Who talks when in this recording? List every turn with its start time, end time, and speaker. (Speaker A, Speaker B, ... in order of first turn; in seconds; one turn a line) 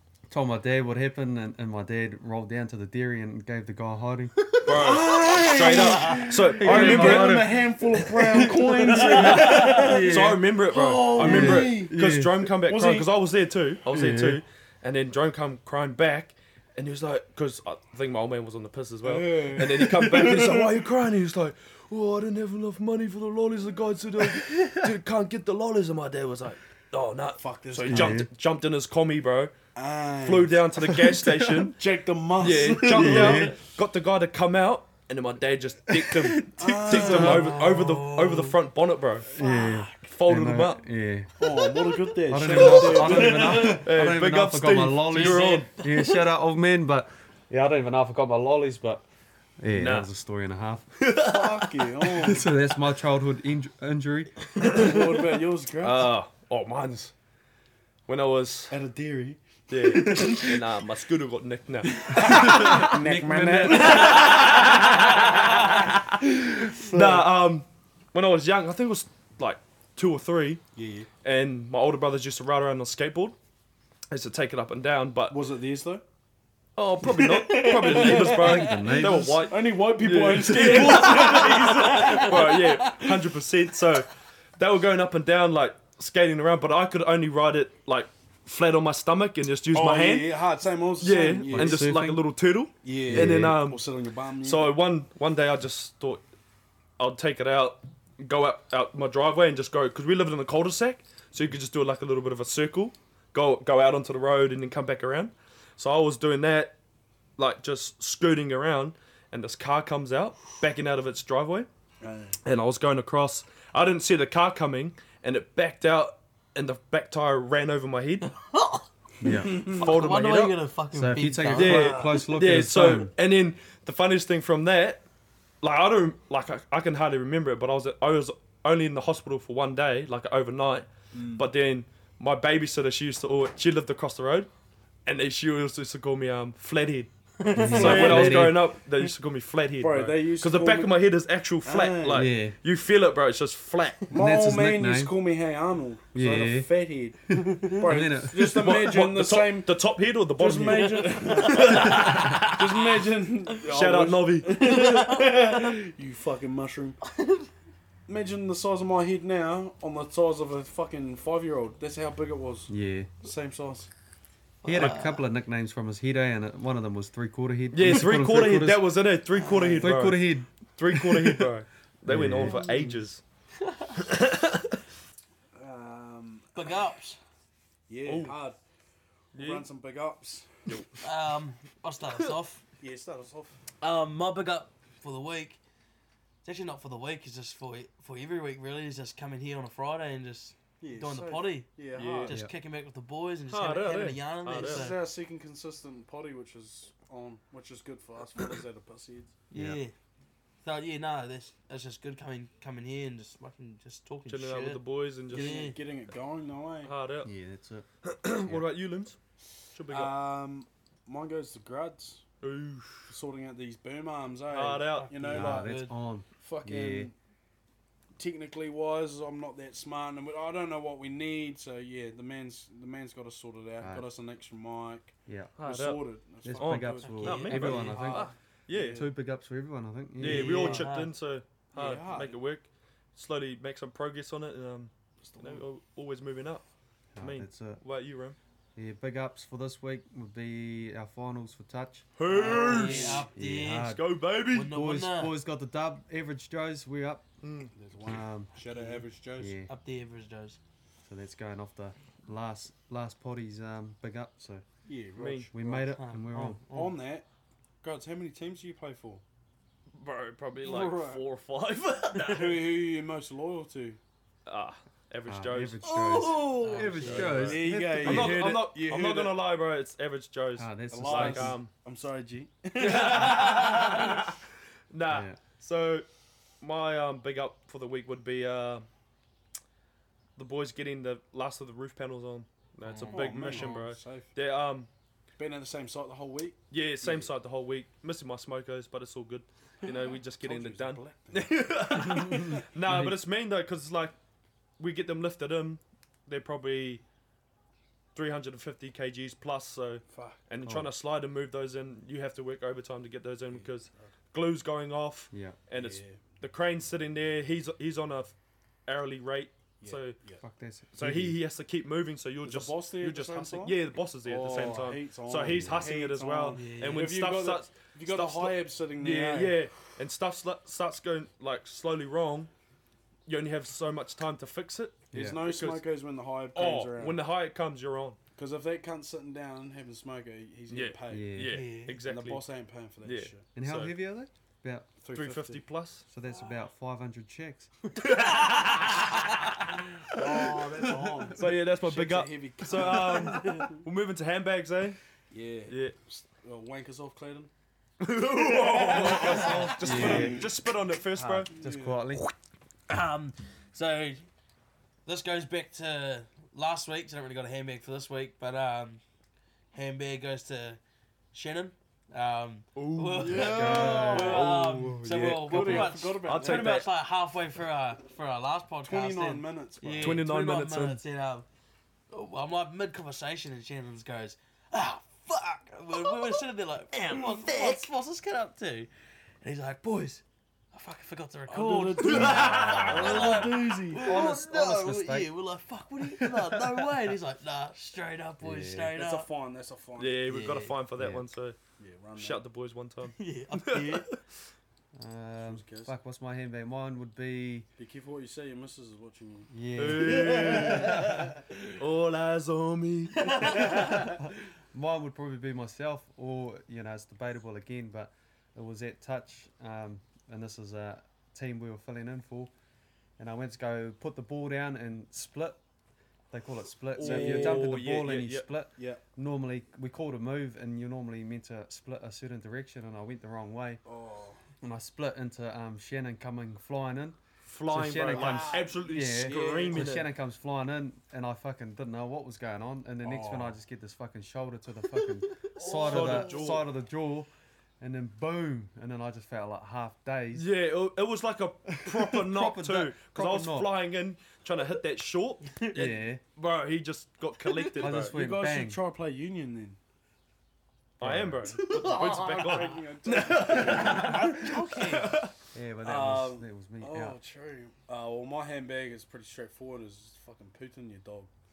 Speaker A: 0.3-4.5
Speaker B: 4.6-7.5
Speaker C: 4.7-11.9
Speaker A: 5.3-10.4
Speaker B: 9.1-29.6
Speaker D: 9.2-9.8
Speaker A: 11.2-12.4
Speaker C: 12.6-13.1
Speaker A: 13.9-14.4
Speaker C: 19.0-20.8
Speaker C: 27.4-28.2
Speaker A: 27.9-28.3
Speaker C: 29.7-33.5
Speaker B: 30.2-31.8
Speaker B: 32.4-39.3
Speaker A: 32.8-33.5
Speaker A: 36.0-36.3
Speaker C: 36.5-37.6
Speaker D: 36.8-38.6
Speaker A: 39.3-41.3
Speaker D: 39.4-39.9
Speaker B: 40.1-40.8
Speaker C: 41.4-43.8
Speaker D: 41.8-43.9
Speaker A: 42.3-49.0
Speaker B: 43.0-45.7
Speaker D: 45.1-46.2
Speaker A: 49.6-50.9
Speaker B: 49.8-50.1
Speaker B: 51.0-51.9
Speaker C: 51.2-52.5
Speaker A: 52.2-54.4
Speaker B: 54.6-55.2
Speaker C: 54.6-56.1
Speaker B: 55.8-57.1
Speaker B: 58.1-58.7
Speaker C: 58.7-60.6
Speaker B: 59.7-63.0
Speaker C: 61.9-64.5
Speaker A: 62.2-64.5
Speaker B: 63.7-70.6
Speaker C: 65.6-67.3
Speaker C: 70.7-71.1
Speaker B: 71.2-73.3
Speaker B: 74.1-75.4
Speaker C: 75.3-76.0
Speaker B: 76.8-90.4
Speaker C: 77.0-83.1
Speaker D: 77.2-78.3
Speaker A: 78.2-79.4
Speaker D: 81.2-83.0
Speaker C: 89.7-92.0
Speaker B: 91.0-93.8
Speaker A: 91.5-92.2
Speaker C: 92.8-94.7
Speaker A: 93.1-93.6
Speaker B: 94.4-96.2
Speaker B: 97.0-106.7
Speaker B: 107.4-111.7
Speaker C: 112.0-112.4
Speaker B: 112.4-118.3
Speaker D: 118.2-122.2
Speaker A: 119.2-119.5
Speaker B: 119.5-120.5
Speaker A: 120.9-123.1
Speaker B: 121.5-125.0
Speaker B: 125.6-134.5
Speaker C: 131.1-131.5
Speaker B: 135.1-137.1
Speaker D: 137.4-138.3
Speaker C: 137.5-138.5
Speaker A: 137.6-138.6
Speaker B: 137.7-144.1
Speaker C: 139.8-140.9
Speaker C: 141.6-142.2
Speaker A: 142.1-142.6
Speaker C: 144.1-149.7
Speaker A: 144.1-145.1
Speaker A: 146.1-146.7
Speaker A: 147.7-148.8
Speaker B: 148.4-153.0
Speaker C: 150.4-157.0
Speaker D: 151.5-151.8
Speaker B: 153.6-154.9
Speaker D: 154.7-155.2
Speaker D: 157.2-157.5
Speaker C: 158.1-162.7
Speaker A: 162.7-163.1
Speaker C: 163.2-163.9
Speaker D: 164.6-165.2
Speaker A: 164.6-168.8
Speaker B: 167.7-173.2
Speaker C: 169.5-169.9
Speaker A: 169.8-171.5
Speaker A: 172.1-172.8
Speaker D: 172.5-172.9
Speaker D: 173.6-173.9
Speaker B: 173.9-174.8
Speaker C: 175.5-176.8
Speaker D: 176.5-177.2
Speaker C: 177.9-178.6
Speaker B: 178.0-178.3
Speaker C: 179.3-180.8
Speaker B: 179.3-179.7
Speaker B: 180.7-181.0
Speaker D: 181.0-182.6
Speaker C: 182.8-183.6
Speaker D: 183.8-185.6
Speaker D: 186.4-194.9
Speaker C: 190.8-192.3
Speaker B: 191.9-192.3
Speaker B: 193.5-194.9
Speaker C: 194.6-199.3
Speaker D: 199.5-199.9
Speaker A: 199.5-199.8
Speaker D: 200.6-205.8
Speaker B: 204.3-205.7
Speaker C: 205.3-206.9
Speaker B: 206.8-207.3
Speaker A: 207.2-207.8
Speaker B: 208.0-209.2
Speaker B: 209.7-210.1
Speaker C: 209.9-212.2
Speaker B: 212.4-213.1
Speaker C: 213.1-215.7
Speaker B: 214.5-215.1
Speaker D: 215.2-215.9
Speaker A: 215.2-217.1
Speaker C: 216.4-217.1
Speaker C: 218.2-229.1
Speaker A: 225.3-225.5
Speaker B: 225.6-229.1
Speaker A: 226.4-228.3
Speaker D: 227.0-227.9
Speaker A: 228.8-230.8
Speaker B: 230.2-236.6
Speaker D: 230.2-231.1
Speaker C: 231.7-232.4
Speaker C: 235.2-235.6
Speaker A: 237.2-237.8
Speaker B: 237.2-238.3
Speaker A: 238.8-242.1
Speaker B: 242.2-244.8
Speaker C: 242.3-243.3
Speaker D: 242.3-243.9
Speaker A: 243.3-244.0
Speaker D: 244.5-245.3
Speaker A: 244.6-247.2
Speaker B: 247.4-247.7
Speaker C: 247.7-249.6
Speaker A: 248.0-248.5
Speaker D: 248.7-249.0
Speaker A: 249.4-249.7
Speaker D: 249.7-250.6
Speaker A: 251.1-254.6
Speaker C: 254.9-255.9
Speaker B: 255.2-255.5
Speaker A: 255.5-256.9
Speaker D: 255.9-256.6
Speaker C: 256.6-257.2
Speaker C: 257.8-259.2
Speaker B: 260.0-262.6
Speaker C: 260.6-261.2
Speaker C: 262.1-264.0
Speaker B: 264.4-265.8
Speaker A: 265.3-268.4
Speaker D: 265.8-267.6
Speaker C: 266.7-269.4
Speaker B: 267.2-271.7
Speaker A: 270.6-271.6
Speaker C: 270.9-274.2
Speaker B: 272.8-274.4
Speaker D: 273.5-273.8
Speaker B: 274.9-276.0
Speaker A: 275.1-275.4
Speaker B: 276.6-278.9
Speaker B: 280.4-284.9
Speaker C: 283.0-284.3
Speaker C: 285.4-287.3
Speaker B: 286.7-294.1
Speaker C: 290.4-291.8
Speaker A: 292.0-293.1
Speaker B: 294.8-297.0
Speaker B: 298.1-308.3
Speaker C: 300.1-300.4
Speaker A: 300.6-300.9
Speaker C: 303.5-304.1
Speaker A: 305.3-305.6
Speaker C: 305.7-306.2
Speaker B: 308.9-310.1
Speaker C: 309.8-310.4
Speaker A: 310.4-311.4
Speaker B: 310.9-322.5
Speaker C: 312.4-319.6
Speaker A: 315.4-315.9
Speaker D: 316.5-317.1
Speaker B: 323.3-325.9
Speaker A: 325.1-325.4
Speaker C: 325.1-327.2
Speaker B: 326.5-328.2
Speaker C: 328.4-331.3
Speaker B: 330.7-332.4
Speaker A: 331.1-331.6
Speaker D: 331.5-332.0
Speaker C: 332.0-333.4
Speaker B: 333.0-333.9
Speaker A: 333.5-334.9
Speaker C: 335.0-335.6
Speaker B: 335.1-336.0
Speaker A: 336.1-337.7
Speaker B: 338.0-340.6
Speaker C: 340.1-343.7
Speaker B: 341.4-345.0
Speaker D: 343.1-343.6
Speaker C: 345.3-347.5
Speaker B: 345.7-345.9
Speaker B: 348.0-351.5
Speaker C: 348.3-350.5
Speaker D: 349.4-349.7
Speaker A: 349.8-350.5
Speaker A: 351.1-352.2
Speaker C: 351.5-352.0
Speaker D: 352.9-354.2
Speaker D: 355.1-359.0
Speaker D: 359.7-360.8
Speaker D: 361.3-371.4
Speaker B: 362.7-366.9
Speaker C: 363.2-364.6
Speaker A: 363.3-364.5
Speaker C: 365.2-366.8
Speaker C: 368.8-370.2
Speaker B: 370.0-371.0
Speaker D: 372.1-378.9
Speaker D: 379.4-389.3
Speaker C: 381.5-384.1
Speaker B: 382.0-383.4
Speaker A: 382.1-383.4
Speaker A: 384.0-385.3
Speaker A: 386.2-386.9
Speaker A: 388.4-388.9
Speaker C: 388.9-390.2
Speaker B: 390.0-391.6
Speaker D: 390.3-390.7
Speaker A: 391.0-391.2
Speaker C: 391.8-392.4
Speaker B: 392.1-394.2
Speaker D: 393.0-394.1
Speaker A: 394.9-397.7
Speaker C: 395.4-395.9
Speaker C: 397.8-399.5
Speaker A: 399.5-401.3
Speaker B: 399.8-403.9
Speaker C: 400.2-401.0
Speaker D: 400.3-400.9
Speaker D: 403.2-403.8
Speaker A: 403.5-412.5
Speaker A: 413.2-415.6
Speaker A: 416.3-423.8
Speaker B: 416.9-418.5
Speaker C: 417.0-417.8
Speaker C: 418.8-419.0
Speaker C: 423.9-424.4
Speaker A: 424.6-437.3
Speaker B: 427.4-430.1
Speaker C: 428.0-430.0
Speaker C: 433.0-433.6
Speaker D: 435.5-436.4
Speaker B: 435.8-436.6
Speaker A: 437.8-440.5
Speaker B: 440.3-448.2
Speaker A: 441.8-443.7
Speaker D: 445.5-445.8
Speaker A: 445.7-446.2
Speaker A: 447.8-448.8
Speaker C: 447.8-449.8
Speaker B: 451.0-455.3
Speaker A: 451.0-451.6
Speaker C: 451.6-454.3
Speaker D: 451.8-452.6
Speaker D: 453.5-455.2
Speaker A: 455.5-457.2
Speaker C: 455.9-461.3